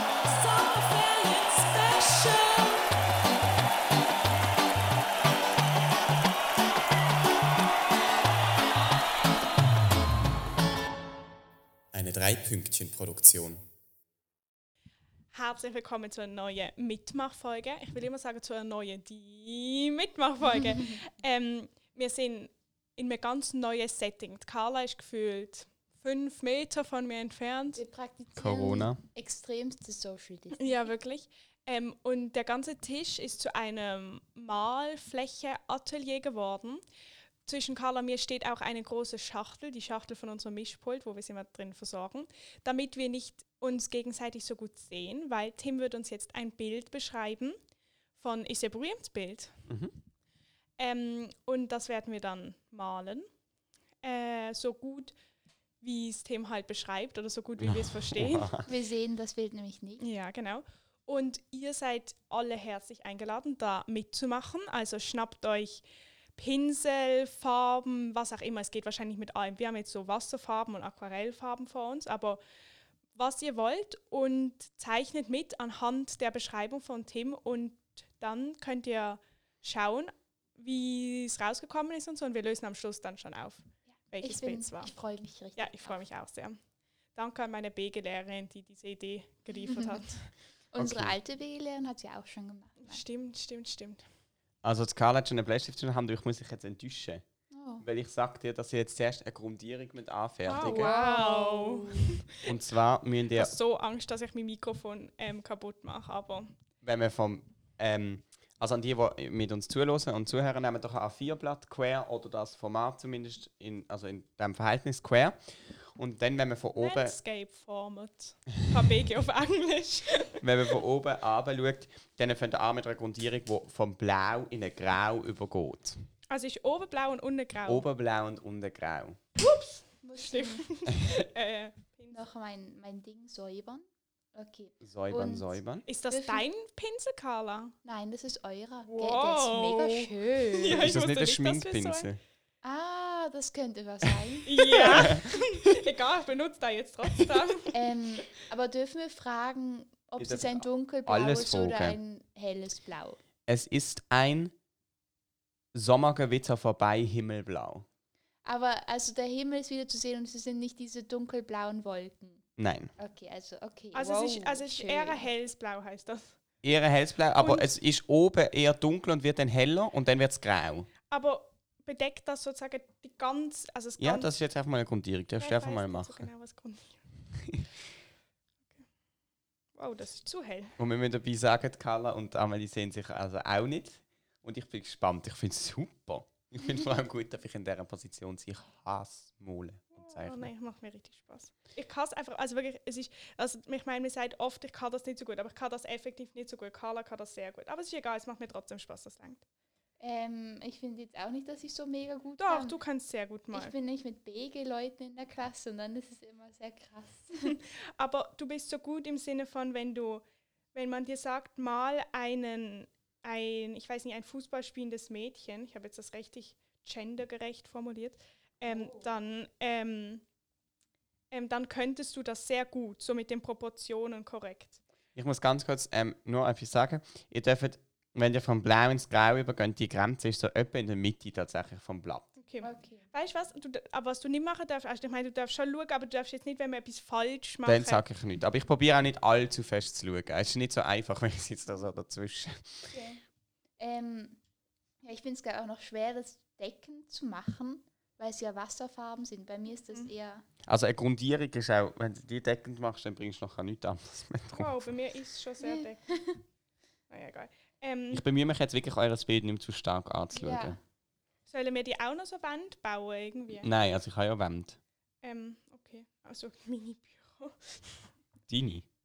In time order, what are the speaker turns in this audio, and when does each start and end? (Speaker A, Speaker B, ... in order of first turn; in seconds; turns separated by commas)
Speaker A: 0.2-2.8, Speaker B: 11.9-13.7, Speaker A: 15.3-27.8, Speaker C: 27.8-30.9, Speaker B: 28.4-29.0, Speaker A: 30.6-36.8, Speaker A: 37.5-47.6, Speaker A: 48.2-49.6, Speaker B: 49.7-50.0, Speaker A: 50.8-53.3, Speaker A: 54.0-55.1, Speaker A: 55.8-58.6, Speaker B: 57.6-58.7, Speaker C: 58.7-60.0, Speaker A: 60.0-65.8, Speaker A: 66.4-72.4, Speaker A: 73.2-84.9, Speaker C: 84.2-86.0, Speaker A: 85.6-86.6, Speaker A: 87.2-90.3, Speaker C: 89.5-90.0, Speaker C: 90.7-93.0, Speaker B: 90.8-91.2, Speaker A: 92.8-94.0, Speaker B: 94.6-97.2, Speaker C: 97.5-97.9, Speaker B: 97.8-101.0, Speaker A: 100.5-102.5, Speaker C: 100.6-102.2, Speaker B: 102.4-103.5, Speaker A: 103.3-106.5, Speaker B: 106.8-117.2, Speaker A: 116.8-120.5, Speaker B: 120.4-126.0, Speaker A: 126.3-127.9, Speaker B: 127.7-129.2, Speaker A: 129.4-132.2, Speaker C: 130.0-130.7, Speaker C: 132.1-135.6, Speaker B: 134.8-135.9, Speaker A: 135.9-137.8, Speaker C: 136.1-136.4, Speaker C: 137.8-140.8, Speaker A: 138.8-142.1, Speaker B: 140.7-142.2, Speaker C: 142.6-145.1, Speaker A: 144.5-147.7, Speaker B: 144.8-145.9, Speaker C: 147.7-153.2, Speaker B: 150.2-152.0, Speaker B: 153.5-154.5, Speaker B: 155.7-157.9, Speaker C: 158.4-162.4, Speaker B: 162.6-162.9, Speaker C: 163.0-165.3, Speaker A: 163.9-166.4, Speaker B: 166.6-170.9, Speaker A: 167.4-167.7, Speaker A: 171.1-174.3, Speaker B: 174.0-176.3, Speaker A: 175.4-177.0, Speaker A: 179.8-180.8, Speaker B: 180.8-190.5, Speaker A: 189.9-199.4, Speaker C: 200.0-202.8, Speaker A: 202.4-203.7, Speaker C: 203.5-207.6, Speaker A: 207.5-220.2, Speaker C: 218.7-219.2, Speaker A: 221.3-224.8, Speaker B: 225.2-232.3, Speaker A: 232.4-238.0, Speaker C: 232.6-233.1, Speaker B: 237.7-242.9, Speaker C: 242.9-243.2, Speaker C: 243.8-244.4, Speaker C: 245.0-250.4, Speaker B: 250.7-254.9, Speaker A: 254.6-256.1, Speaker C: 255.6-256.4, Speaker A: 257.1-258.2, Speaker B: 258.1-260.8, Speaker C: 260.3-260.8, Speaker A: 261.5-263.7, Speaker B: 263.6-264.8, Speaker A: 265.2-268.1, Speaker B: 268.5-268.9